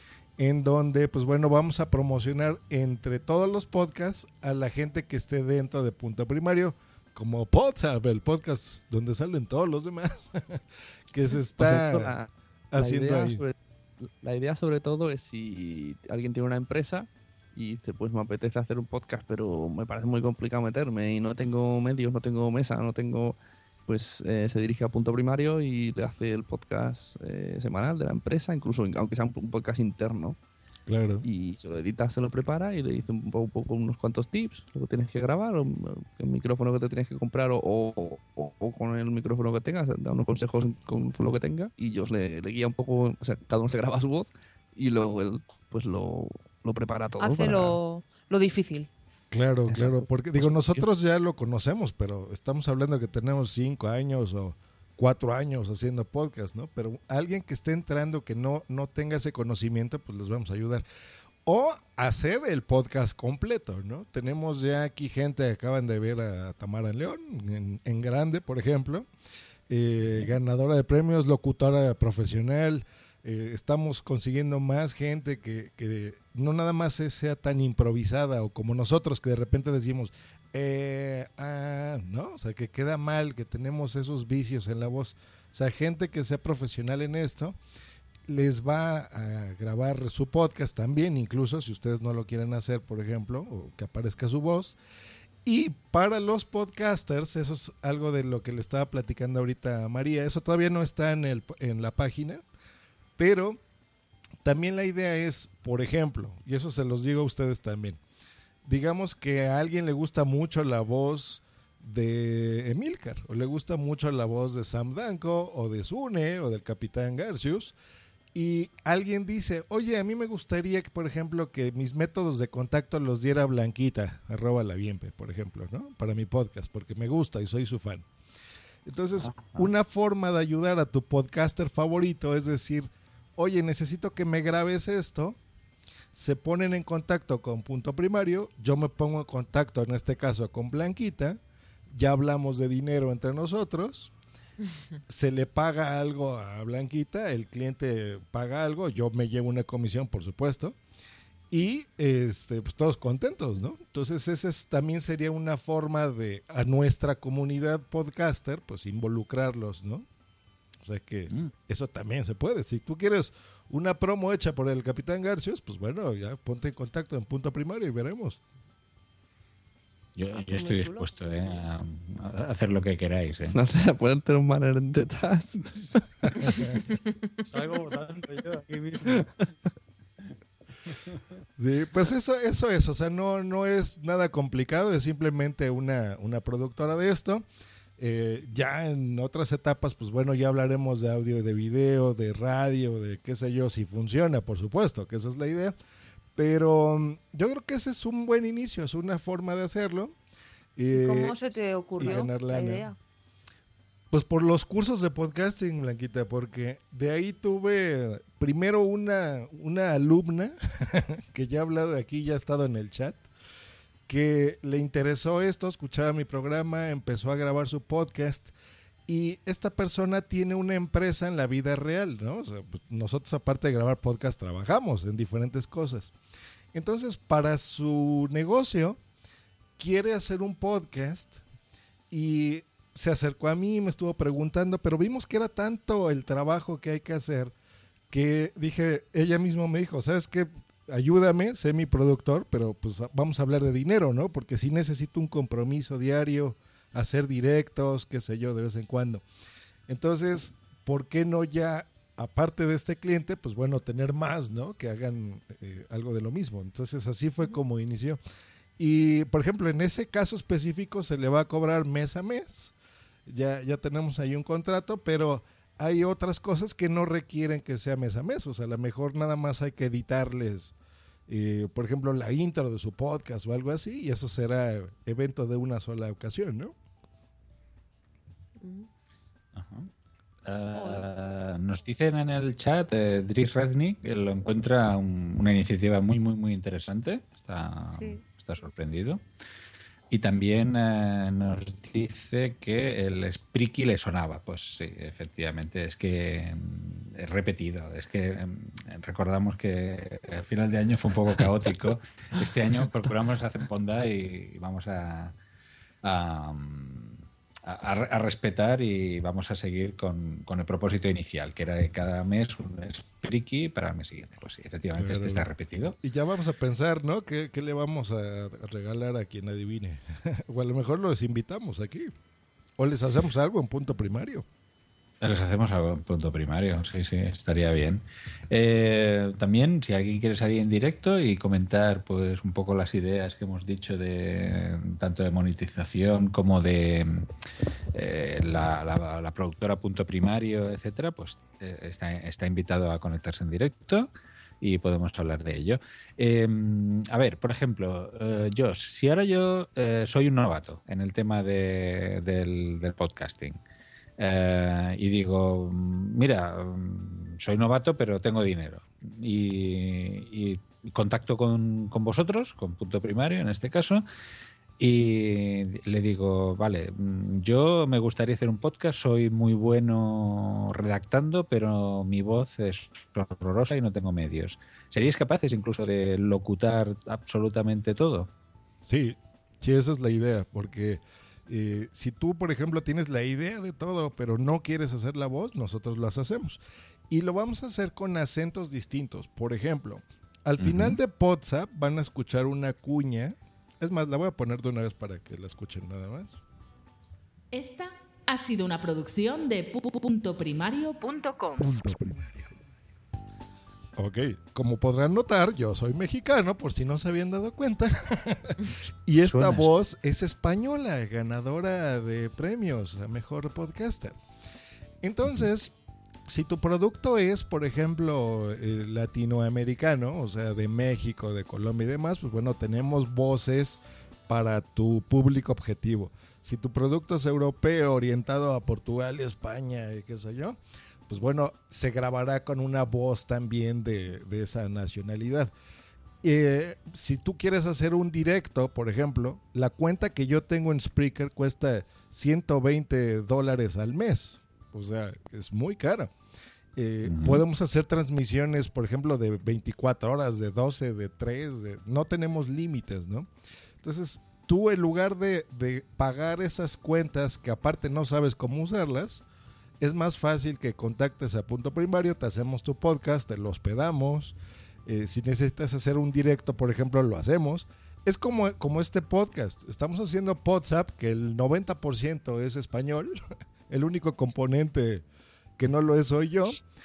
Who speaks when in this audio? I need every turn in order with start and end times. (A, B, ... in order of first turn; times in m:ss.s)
0:00.4-0:12.1 A
0:11.6-0:30.4 B
0:12.7-0:13.4 A
0:30.9-0:31.2 A
0:31.2-0:47.8 B
0:47.2-0:48.9 C
0:49.3-1:00.8 A
0:49.7-0:50.9 B
1:01.4-1:09.1 A
1:09.7-1:27.6 A
1:28.3-1:34.8 A
1:35.4-1:42.4 A
1:43.2-1:43.6 A
1:44.4-1:48.0 A
1:48.6-1:57.8 A
1:58.3-2:08.1 A
2:08.9-2:15.4 A
2:09.3-2:09.7 D
2:16.1-2:24.1 A
2:25.1-2:30.8 A
2:31.5-2:40.1 A
2:40.8-2:48.4 A
2:50.2-2:53.5 D
2:50.5-2:51.6 C
2:53.5-2:55.6 B
2:56.9-2:58.0 C
2:57.6-2:59.2 D
3:01.6-3:07.4 A
3:08.0-3:15.8 A
3:16.4-3:20.1 A
3:20.8-3:21.4 A
3:20.9-3:23.0 C
3:22.0-3:22.9 A
3:24.1-3:33.3 A
3:34.1-3:38.5 A
3:39.1-3:46.1 A
3:46.7-3:49.0 A
3:49.8-3:51.4 A
3:52.1-3:57.5 A
3:58.1-4:09.2 A
4:09.9-4:18.2 A
4:18.8-4:22.7 A
4:23.3-4:30.7 A
4:31.3-4:36.7 A
4:38.6-4:38.9 C
4:39.5-4:39.9 D
4:40.5-4:49.2 D
4:40.8-4:41.1 C
4:48.0-4:48.2 C
4:50.1-5:05.4 D
5:06.0-5:16.0 D
5:14.9-5:15.5 A
5:16.0-5:22.1 A
5:22.8-5:24.5 A
5:25.2-5:37.3 D
5:37.9-5:44.1 D
5:44.6-5:53.6 D
5:54.2-6:04.0 D
6:04.8-6:18.3 D
6:18.8-6:36.4 A
6:30.6-6:31.0 D
6:37.5-6:41.8 E
6:44.0-6:48.5 A
6:49.1-6:54.2 A
6:49.2-6:49.7 D
6:55.0-6:55.7 A
6:56.3-7:15.5 A
7:16.2-7:26.1 A
7:26.8-7:33.3 A
7:27.1-7:27.4 D
7:33.8-7:39.2 A
7:39.8-7:53.1 A
7:53.7-7:55.0 A
7:55.6-7:56.6 A